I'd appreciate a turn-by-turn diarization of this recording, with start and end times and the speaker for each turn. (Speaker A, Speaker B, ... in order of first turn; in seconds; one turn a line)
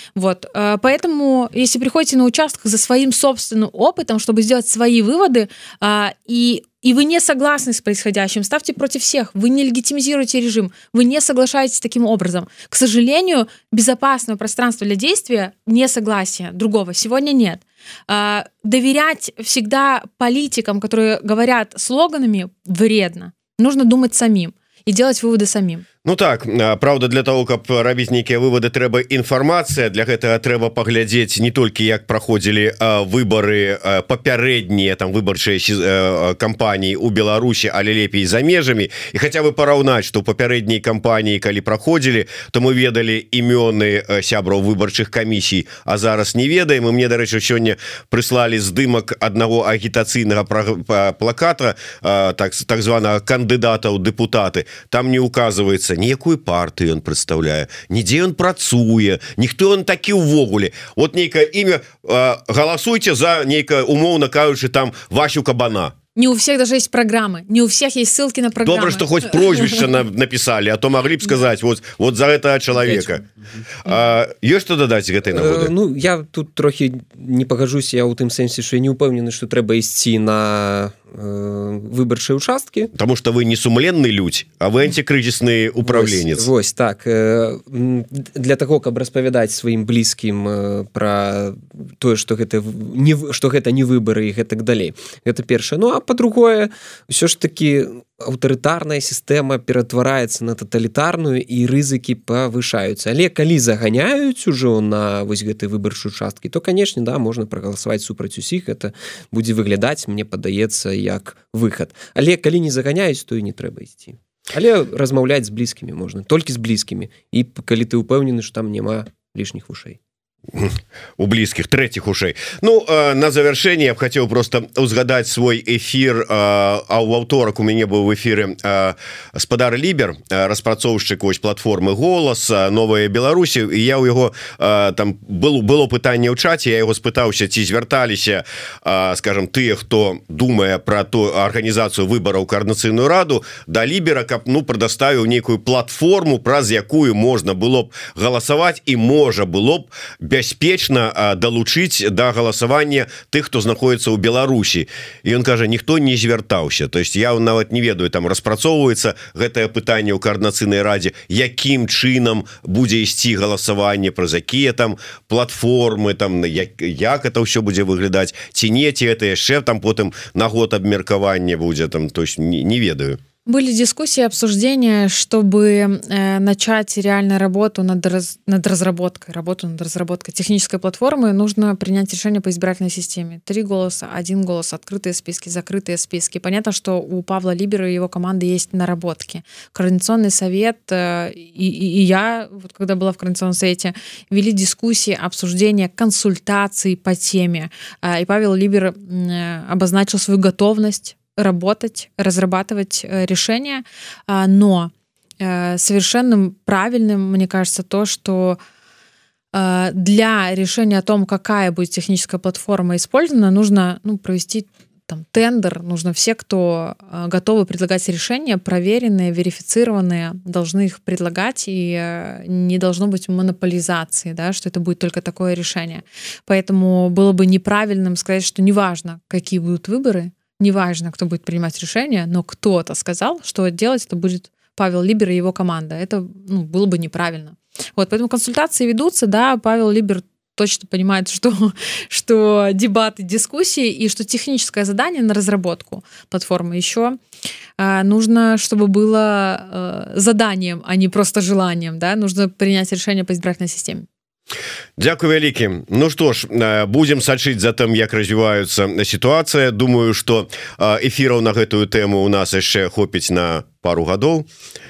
Speaker A: 0.1-25.9
Speaker B: 26.1-66.0
Speaker A: 66.2-69.9
Speaker B: 68.7-73.2
Speaker C: 72.8-73.6
Speaker B: 73.8-75.7
Speaker C: 75.3-82.9
Speaker B: 82.9-86.5
Speaker C: 85.8-120.0
Speaker B: 120.5-173.2
Speaker A: 173.5-208.6
Speaker A: 209.5-247.2
Speaker A: 247.8-254.1
Speaker B: 255.0-264.5